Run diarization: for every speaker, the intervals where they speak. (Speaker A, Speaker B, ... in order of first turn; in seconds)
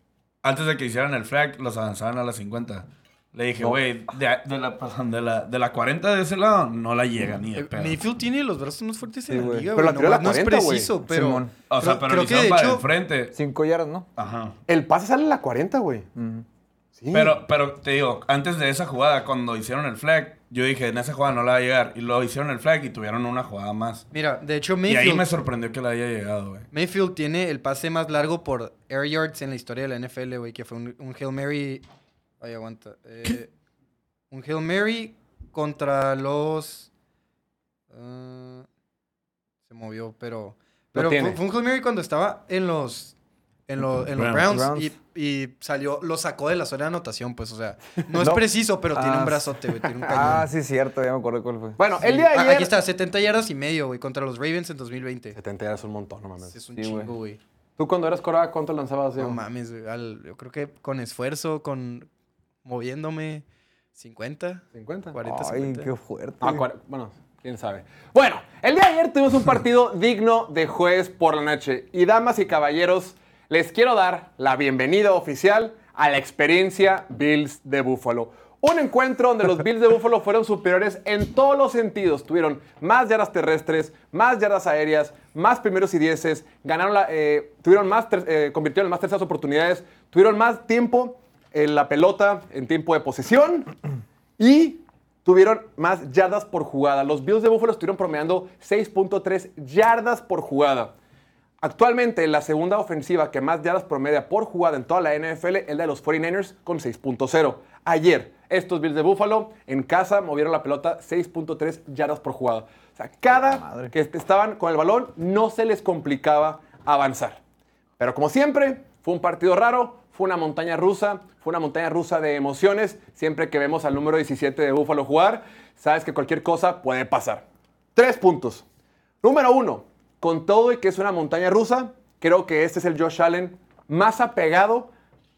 Speaker A: 0.4-8.0, 11.7-13.3, 14.2-14.6, 17.1-24.1, 24.9-26.7, 44.1-44.5
Speaker B: 7.5-12.8, 24.1-25.3, 26.7-31.9, 32.4-33.5, 34.3-36.9, 37.9-38.6, 39.7-43.1, 43.7-50.5, 52.0-55.4, 56.5-57.4, 59.2-62.1, 62.6-65.9
Speaker C: 9.3-9.7, 11.1-11.5, 13.3-14.1, 16.1-16.4, 44.4-44.9, 48.1-51.8, 56.7-57.1, 65.2-66.6, 113.3-113.9
Speaker D: 9.7-10.9, 14.7-16.1, 16.9-17.4, 40.9-41.4, 51.8-52.7, 55.3-56.5, 57.8-59.4, 64.7-65.1, 66.4-93.7, 94.4-100.9, 101.6-117.4, 118.0-128.6, 129.2-134.9